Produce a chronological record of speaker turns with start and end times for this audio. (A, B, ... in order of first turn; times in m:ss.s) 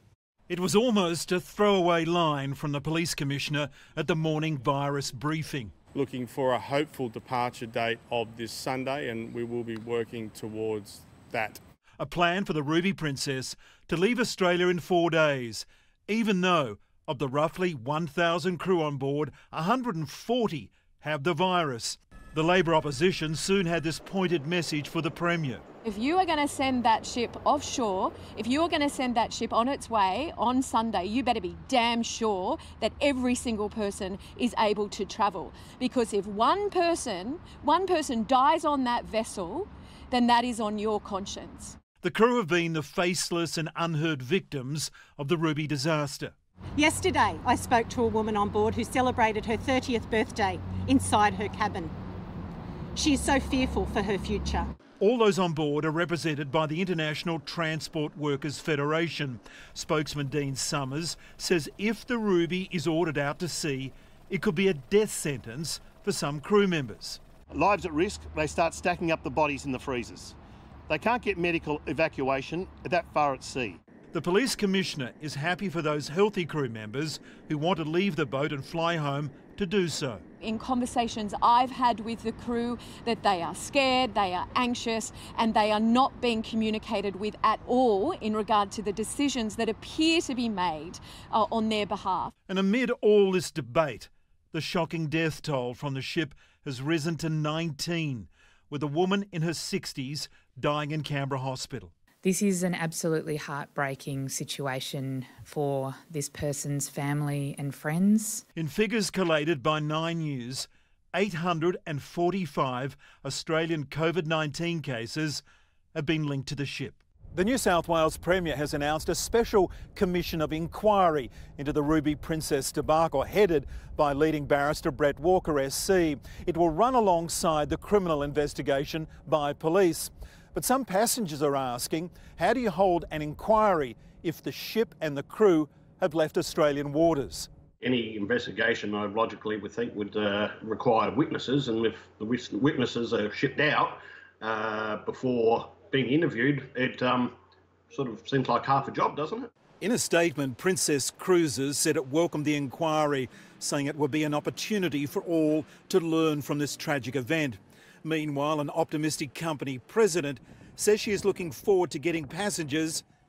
0:00.5-0:05.8 A
0:05.9-0:11.6 B
0:12.0-0:25.6 A
0:25.8-0:41.8 C
0:42.0-0:46.3 A
0:46.8-0:51.9 D
0:53.0-0:54.7 D
0:55.0-1:07.2 A
1:07.5-1:10.4 E
1:10.9-1:13.8 E
1:14.1-1:20.2 A
1:20.4-1:32.3 C
1:32.5-1:41.9 A
1:42.2-1:48.4 F
1:48.6-1:55.4 A
1:55.9-2:17.5 A
2:17.8-2:27.4 G
2:27.9-2:29.5 G
2:29.8-2:43.0 A